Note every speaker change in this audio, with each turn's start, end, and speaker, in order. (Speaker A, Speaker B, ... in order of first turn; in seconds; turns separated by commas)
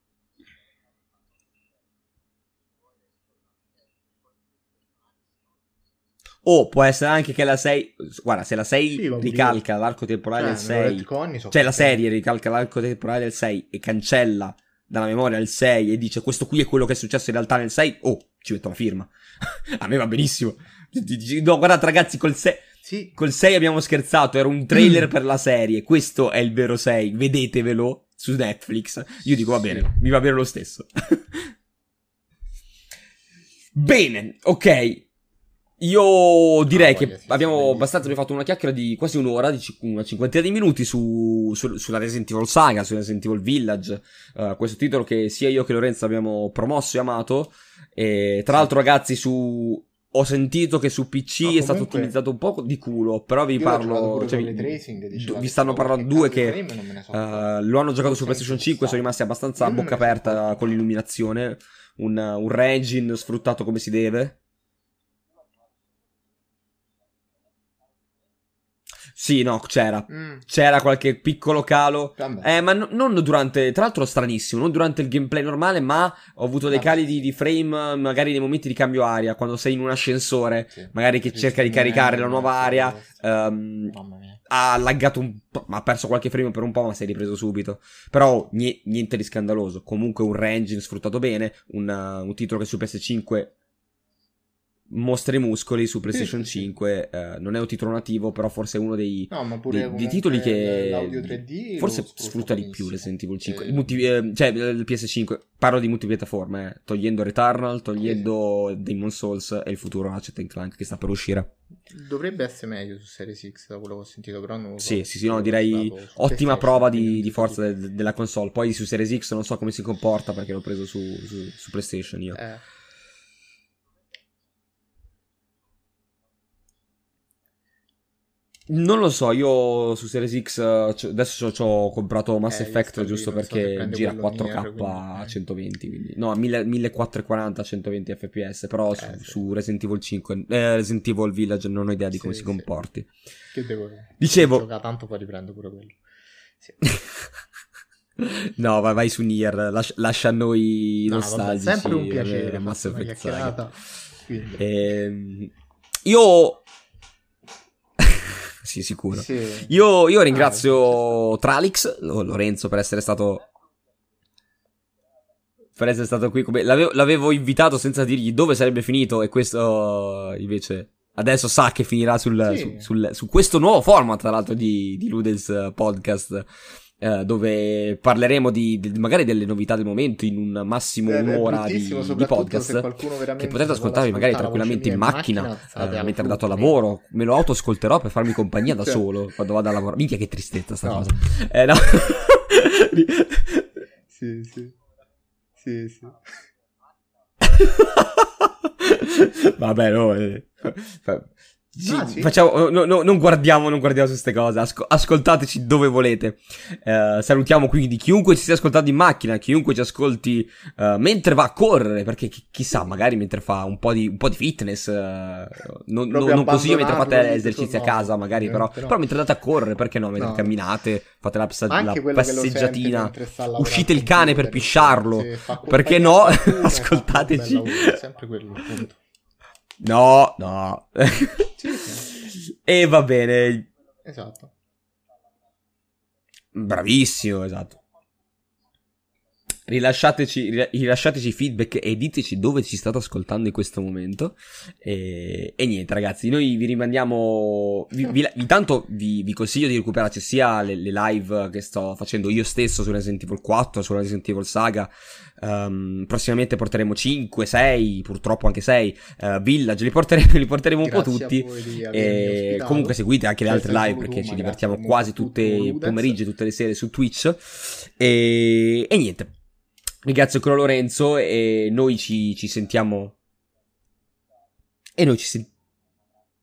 Speaker A: 6.4-31.5, Speaker B: 8.9-9.6, Speaker B: 10.3-12.0, Speaker B: 22.8-23.2, Speaker B: 29.3-29.9, Speaker A: 33.8-35.1, Speaker A: 35.8-56.6, Speaker B: 36.7-38.2, Speaker B: 51.4-52.1, Speaker B: 53.6-57.5, Speaker A: 57.1-64.4, Speaker B: 58.0-59.1, Speaker B: 59.6-60.7, Speaker A: 69.1-84.0, Speaker B: 70.1-70.5, Speaker B: 72.2-72.5, Speaker B: 76.7-77.0, Speaker B: 80.7-83.2, Speaker B: 83.9-84.4, Speaker A: 84.5-93.5, Speaker A: 94.9-111.5, Speaker B: 96.1-96.7, Speaker B: 99.3-104.0, Speaker B: 108.0-108.3, Speaker B: 111.9-117.7, Speaker A: 114.8-122.4, Speaker B: 122.3-122.6, Speaker A: 128.7-143.1, Speaker B: 132.5-135.4, Speaker B: 138.9-139.4, Speaker B: 142.1-142.7, Speaker B: 143.5-146.0, Speaker A: 144.2-144.7, Speaker A: 146.8-147.3, Speaker A: 148.2-153.6, Speaker B: 151.1-154.9, Speaker A: 154.6-155.5, Speaker A: 156.1-156.6, Speaker A: 158.0-163.5, Speaker B: 159.1-161.0, Speaker A: 165.8-193.7, Speaker B: 172.4-172.9, Speaker B: 181.1-186.8, Speaker B: 188.7-189.1, Speaker B: 190.8-191.2, Speaker B: 194.1-194.8, Speaker B: 195.6-196.3, Speaker A: 197.4-228.0, Speaker B: 201.9-202.4, Speaker B: 216.1-219.0, Speaker B: 220.2-220.6, Speaker B: 221.7-229.0, Speaker A: 229.8-233.7, Speaker B: 231.6-232.1, Speaker B: 234.1-234.5, Speaker A: 236.5-237.8, Speaker A: 239.7-269.3, Speaker B: 260.8-266.2, Speaker A: 270.1-273.2, Speaker A: 275.0-275.5